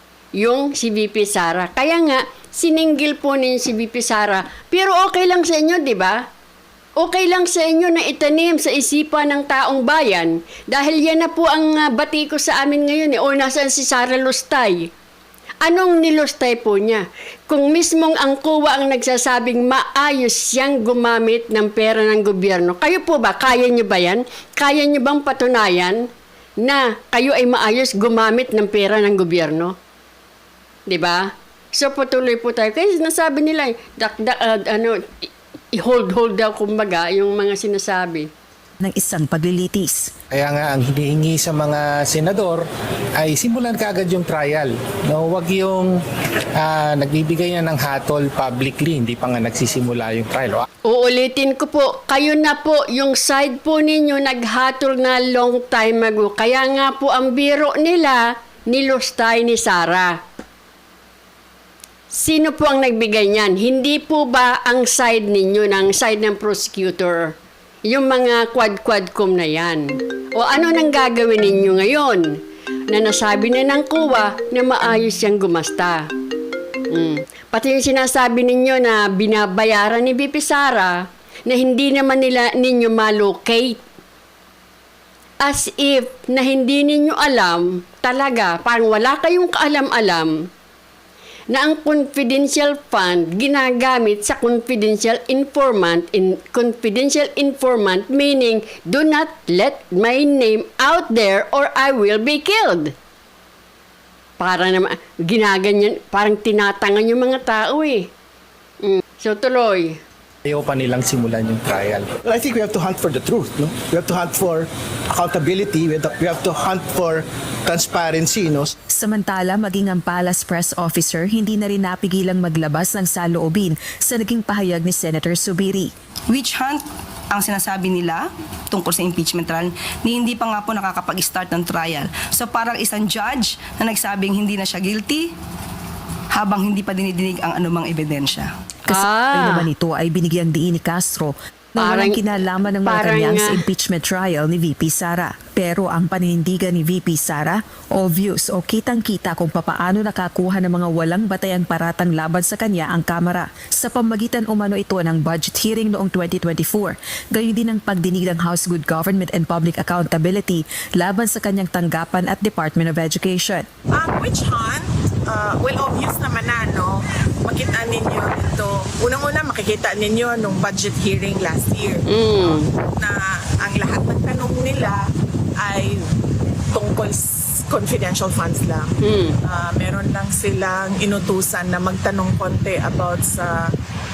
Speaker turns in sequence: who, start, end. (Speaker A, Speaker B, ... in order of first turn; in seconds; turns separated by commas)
Speaker A: 0.4-6.3, Speaker A: 7.0-14.9, Speaker A: 15.6-26.1, Speaker A: 26.6-29.8, Speaker A: 30.9-38.3, Speaker B: 38.8-40.1, Speaker C: 40.3-42.6, Speaker C: 43.2-45.9, Speaker C: 46.5-50.6, Speaker A: 50.9-60.2, Speaker A: 62.1-67.3, Speaker A: 67.9-76.1, Speaker A: 76.9-83.8, Speaker A: 85.4-90.5, Speaker A: 91.5-102.9, Speaker A: 104.4-108.1, Speaker A: 108.8-110.0, Speaker C: 110.4-112.1, Speaker D: 112.2-118.7, Speaker B: 118.9-125.9, Speaker E: 126.3-135.3, Speaker E: 136.3-138.5, Speaker B: 138.9-163.7, Speaker A: 138.9-139.7, Speaker A: 141.8-142.2, Speaker A: 142.8-143.6, Speaker F: 163.9-175.0, Speaker A: 172.1-172.7, Speaker F: 175.6-176.1, Speaker F: 176.7-183.7, Speaker A: 179.0-179.4